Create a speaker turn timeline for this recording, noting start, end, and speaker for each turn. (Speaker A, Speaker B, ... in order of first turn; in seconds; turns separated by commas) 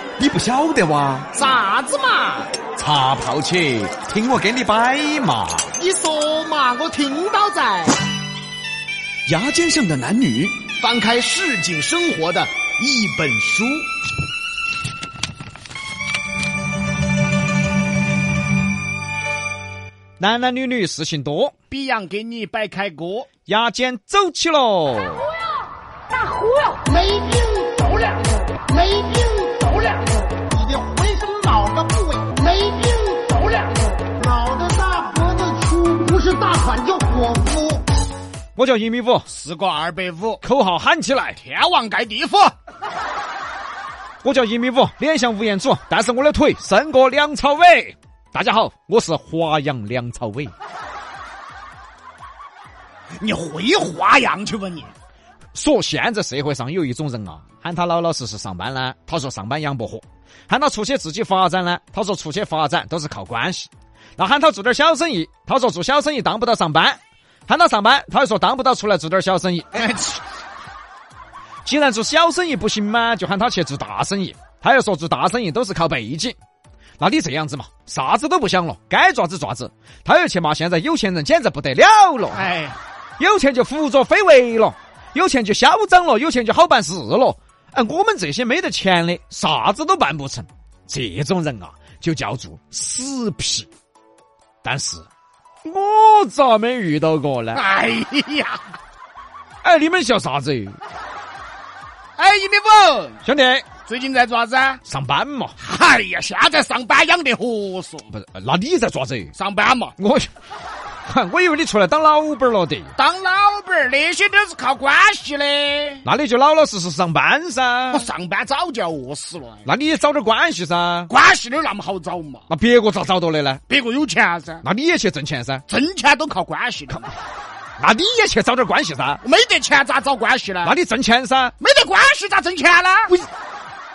Speaker A: 0.2-1.3, Speaker B: 1.3-2.5, Speaker A: 2.8-5.7, Speaker B: 5.8-8.0, Speaker A: 9.2-10.7, Speaker B: 10.8-13.9, Speaker A: 20.2-21.5, Speaker B: 21.7-23.3, Speaker A: 23.5-25.3, Speaker B: 30.5-32.6, Speaker C: 35.2-37.3, Speaker A: 38.5-39.3, Speaker B: 39.2-40.4, Speaker A: 40.4-41.4, Speaker B: 41.4-42.5, Speaker A: 44.2-50.5, Speaker B: 53.2-54.9, Speaker A: 55.5-69.9, Speaker B: 69.7-70.2, Speaker A: 71.7-76.3, Speaker A: 77.0-82.5, Speaker B: 82.3-82.8, Speaker A: 83.2-93.7, Speaker A: 94.6-95.0, Speaker A: 95.6-97.6, Speaker B: 97.5-98.7, Speaker A: 99.6-100.8, Speaker B: 102.2-103.2, Speaker A: 103.2-103.6, Speaker B: 103.8-104.8, Speaker A: 104.8-105.5, Speaker B: 105.6-108.1, Speaker A: 108.1-109.3, Speaker B: 109.3-110.0, Speaker A: 110.0-110.3, Speaker A: 111.0-112.9, Speaker B: 113.0-116.0, Speaker A: 116.0-118.1, Speaker B: 117.9-119.6, Speaker A: 119.6-121.1, Speaker B: 121.1-122.5, Speaker A: 122.5-123.6, Speaker B: 123.7-124.6, Speaker A: 124.6-125.6, Speaker B: 125.7-127.1, Speaker A: 127.8-129.2, Speaker B: 129.2-130.8, Speaker A: 130.6-131.5, Speaker B: 131.6-133.1